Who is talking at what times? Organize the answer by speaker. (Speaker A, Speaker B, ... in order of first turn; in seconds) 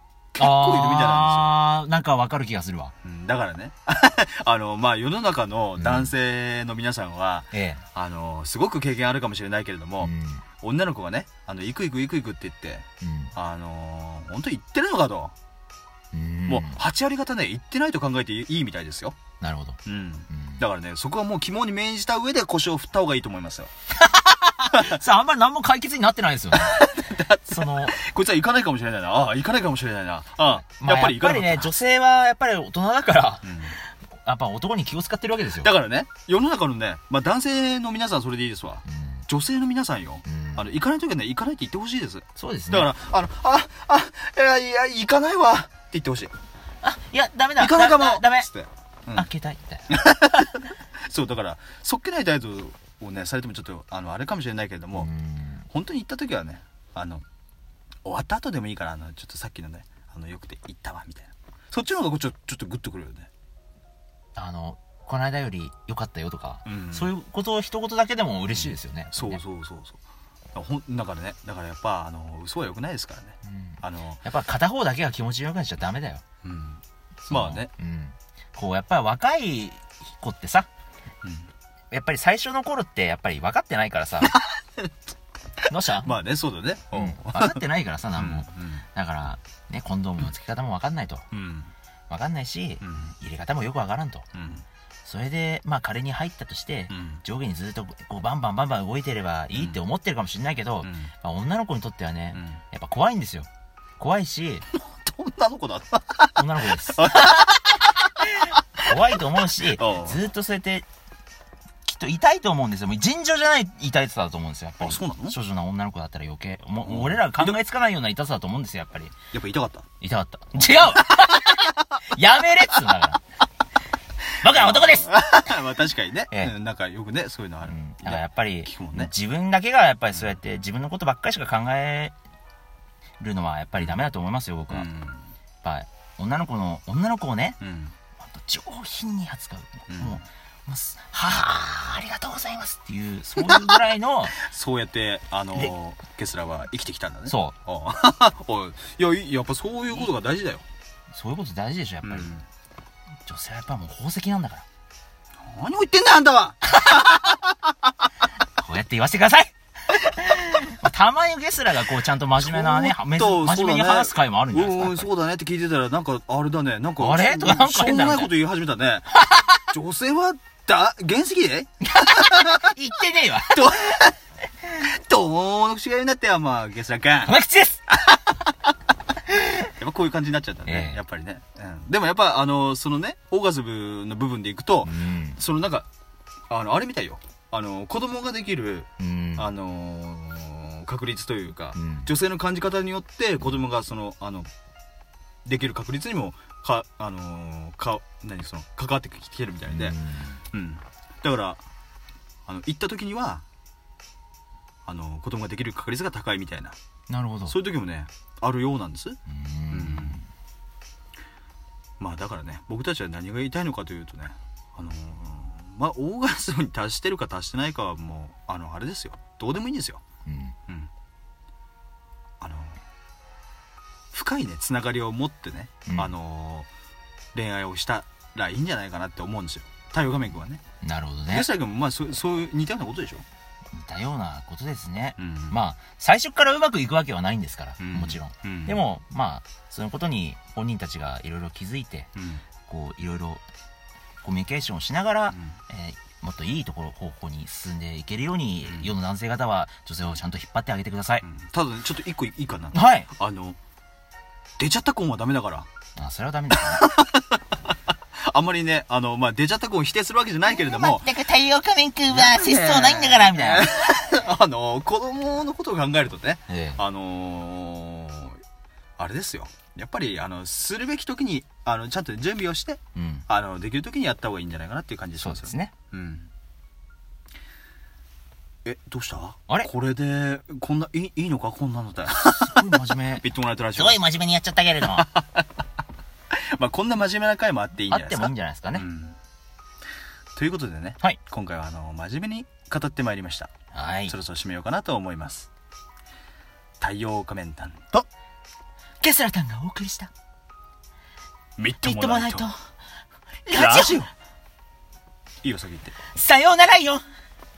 Speaker A: 0.3-1.6, 3.0-15.3, 16.5-19.2, 19.9-23.7, 26.6-31.7, 33.4-33.8, 35.6-46.3, 47.6-49.3, 49.9-55.1, 55.7-57.2, 58.0-63.3, 66.7-67.1, 68.5-70.0, 70.5-74.2, 76.4-77.7, 81.2-81.5, 86.0-87.6, 88.1-88.8, 91.3-91.7, 92.8-93.1, 94.3-94.7, 96.9-97.2, 99.5-99.8, 100.8-101.1, 102.3-102.6, 104.7-108.6, 109.7-110.2, 114.8-115.4, 116.8-117.6, 119.3-119.9, 120.7-122.0, 124.5-129.1, 134.7-135.3, 137.6-137.9, 139.9-140.2, 143.4-143.7, 144.4-150.6, 152.0-152.4, 155.4-157.4, 162.4-169.1, 169.7-172.7, 173.5-174.2, 174.7-177.4, 177.9-178.4, 179.5-185.9, 186.5-194.5, 195.5-200.0, 200.5-201.6, 202.5-203.4, 204.9-206.8, 207.5-209.2, 209.7-210.2, 212.0-220.0, 222.4-222.8, 224.1-226.7, 227.3-230.6, 231.3-233.2, 235.2-235.6, 237.8-238.8, 242.2-242.4, 245.3-245.6, 248.7-248.9, 251.2-253.6, 254.6-255.7, 256.5-257.4, 258.2-261.2, 262.1-268.4, 269.0-276.3, 278.6-284.0, 284.9-285.5, 286.3-289.2, 290.4-293.5, 294.1-295.5, 296.8-298.1, 301.6-302.5, 303.5-304.1, 305.4-305.9
Speaker B: 0.4-2.9, 5.8-6.1, 7.5-7.8, 10.0-10.4, 13.0-13.3, 16.1-16.8, 19.4-19.8, 20.3-20.6, 24.2-26.9, 27.5-28.0, 30.8-33.6, 34.2-35.7, 38.9-39.2, 40.3-40.7, 42.4-42.9, 46.8-48.5, 49.1-49.9, 55.0-55.7, 64.4-69.4, 73.5-76.2, 77.3-80.7, 81.9-84.3, 85.7-86.2, 86.9-91.3, 92.1-94.3, 95.0-103.5, 104.0-104.7, 106.4-107.2, 108.8-110.9, 111.8-119.1, 120.0-123.2, 124.4-125.1, 127.7-132.1, 133.2-134.9, 135.6-137.6, 138.2-144.3, 147.3-147.6, 151.1-152.3, 153.3-154.7, 156.8-157.1, 158.6-165.1, 167.0-168.3, 169.2-169.6, 171.9-173.7, 177.2-177.8, 180.7-181.0, 184.8-185.4, 189.0-189.5, 191.8-192.1, 199.7-200.4, 207.1-207.6, 209.3-210.3, 220.3-220.6, 225.9-226.1, 230.8-231.5, 233.7-242.1, 242.7-243.4, 244.2-251.2, 252.7-253.1, 256.0-256.9, 260.5-263.7, 266.5-266.8, 273.0-273.3, 275.2-275.7, 282.2-285.1, 287.9-288.9, 293.7-294.1, 299.0-300.1, 301.8-302.6, 303.5-304.0, 306.1-307.0